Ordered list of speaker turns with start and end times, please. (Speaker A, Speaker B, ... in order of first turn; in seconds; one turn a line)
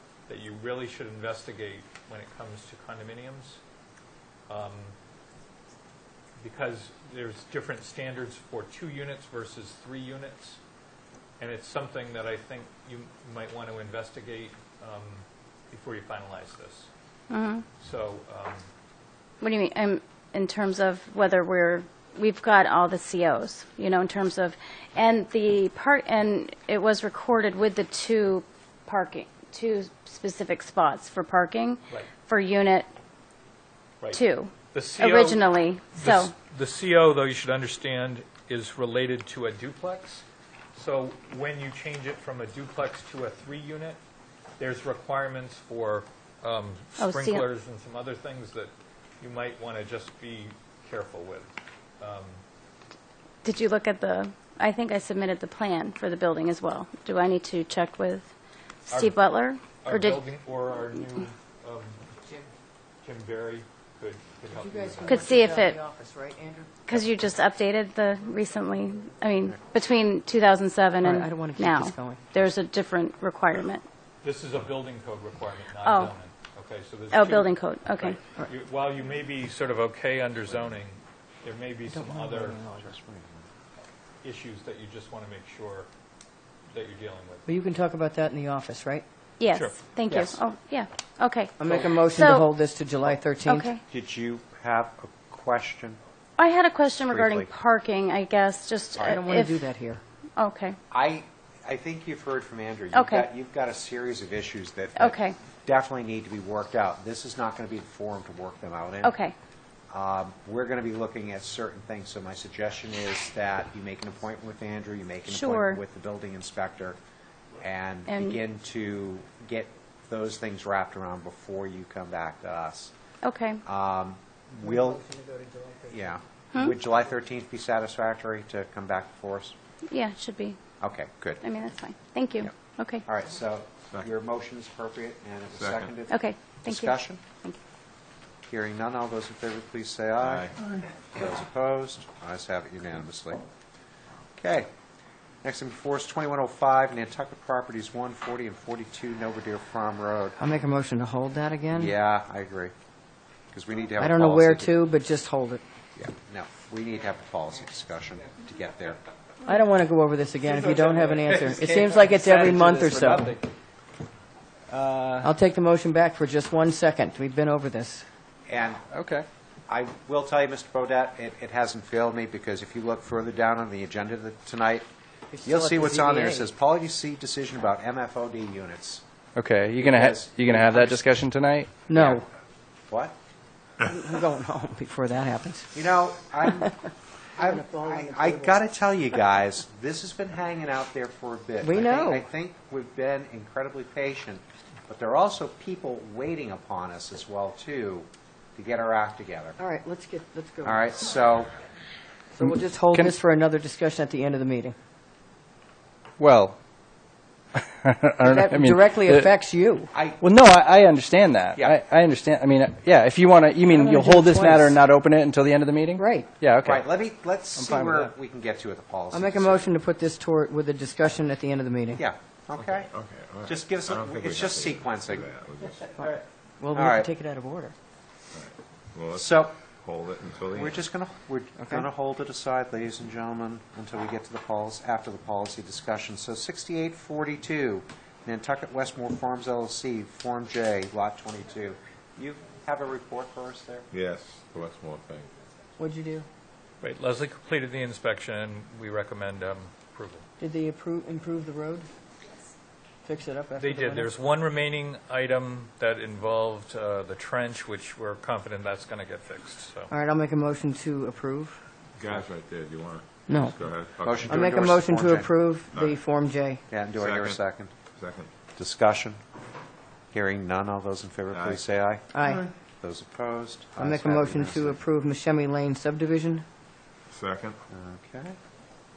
Speaker A: 0.3-3.6
Speaker A: 4.5-5.0
Speaker A: 6.4-10.6
Speaker A: 11.4-16.9
Speaker B: 17.3-17.6
Speaker A: 17.8-18.6
Speaker B: 19.4-32.9
Speaker B: 34.1-36.3
Speaker A: 34.7-40.2
Speaker A: 40.7-44.0
Speaker A: 44.6-52.4
Speaker B: 47.0-47.5
Speaker B: 53.4-58.3
Speaker B: 58.9-60.2
Speaker A: 58.9-59.1
Speaker A: 59.8-62.0
Speaker A: 63.0-65.6
Speaker C: 64.5-66.8
Speaker B: 65.1-65.8
Speaker B: 66.8-73.8
Speaker C: 71.0-72.3
Speaker A: 74.2-82.6
Speaker B: 75.8-76.1
Speaker B: 77.1-78.2
Speaker C: 81.9-82.9
Speaker D: 82.7-83.5
Speaker A: 84.2-85.9
Speaker A: 86.7-87.5
Speaker C: 87.5-89.0
Speaker B: 89.4-92.5
Speaker D: 90.1-90.4
Speaker C: 91.6-93.7
Speaker B: 93.5-93.8
Speaker D: 93.9-96.0
Speaker B: 96.4-99.6
Speaker D: 97.0-97.5
Speaker D: 99.0-99.2
Speaker C: 99.0-100.0
Speaker B: 100.4-100.8
Speaker D: 100.9-109.2
Speaker B: 102.9-103.3
Speaker B: 105.0-105.3
Speaker B: 109.0-109.3
Speaker D: 109.9-117.0
Speaker B: 115.3-115.8
Speaker D: 117.6-122.9
Speaker B: 118.1-118.4
Speaker B: 123.2-123.6
Speaker D: 123.6-125.1
Speaker C: 124.7-125.9
Speaker D: 125.9-129.6
Speaker B: 129.9-130.6
Speaker D: 130.8-131.4
Speaker B: 131.4-133.0
Speaker D: 133.0-137.2
Speaker E: 135.5-135.9
Speaker B: 136.1-137.6
Speaker D: 138.5-143.4
Speaker E: 140.2-140.5
Speaker D: 144.4-144.7
Speaker D: 145.4-150.4
Speaker C: 150.4-151.9
Speaker D: 151.7-152.7
Speaker D: 153.5-154.8
Speaker C: 154.0-155.6
Speaker D: 155.9-159.0
Speaker C: 159.4-163.3
Speaker F: 160.6-163.5
Speaker F: 164.7-165.3
Speaker C: 165.2-168.1
Speaker D: 168.5-168.8
Speaker F: 168.9-169.2
Speaker D: 169.7-174.8
Speaker C: 175.3-176.5
Speaker D: 175.4-179.0
Speaker F: 179.3-181.8
Speaker D: 179.8-181.1
Speaker C: 181.9-182.2
Speaker D: 181.9-182.2
Speaker D: 182.9-183.2
Speaker C: 183.8-185.8
Speaker D: 185.7-186.7
Speaker C: 186.4-186.7
Speaker D: 187.3-199.6
Speaker C: 187.4-188.6
Speaker C: 191.6-192.3
Speaker C: 199.6-201.1
Speaker D: 200.6-201.5
Speaker C: 202.3-204.7
Speaker F: 202.4-203.1
Speaker F: 206.2-206.6
Speaker F: 207.5-209.4
Speaker C: 208.3-209.9
Speaker D: 209.9-210.2
Speaker F: 210.2-216.9
Speaker C: 213.7-214.8
Speaker C: 215.9-216.3
Speaker D: 216.6-219.7
Speaker F: 217.5-218.1
Speaker C: 219.1-222.0
Speaker D: 221.9-222.9
Speaker E: 222.6-226.0
Speaker D: 223.4-225.3
Speaker C: 226.0-227.7
Speaker D: 226.7-227.1
Speaker E: 228.3-230.8
Speaker D: 229.1-229.5
Speaker D: 230.5-243.9
Speaker C: 231.6-231.8
Speaker E: 243.9-245.3
Speaker C: 245.8-246.2
Speaker A: 246.8-250.3
Speaker C: 250.4-251.9
Speaker C: 253.0-254.1
Speaker A: 253.6-259.9
Speaker C: 259.9-261.6
Speaker E: 262.0-264.8
Speaker C: 263.3-263.6
Speaker D: 264.0-265.4
Speaker C: 264.3-266.6
Speaker E: 265.7-266.0
Speaker D: 266.7-267.7
Speaker E: 266.9-268.3
Speaker D: 268.5-269.2
Speaker D: 270.1-274.8
Speaker E: 271.3-271.6
Speaker C: 272.1-272.5
Speaker C: 273.8-276.4
Speaker E: 277.1-277.6
Speaker D: 277.7-278.4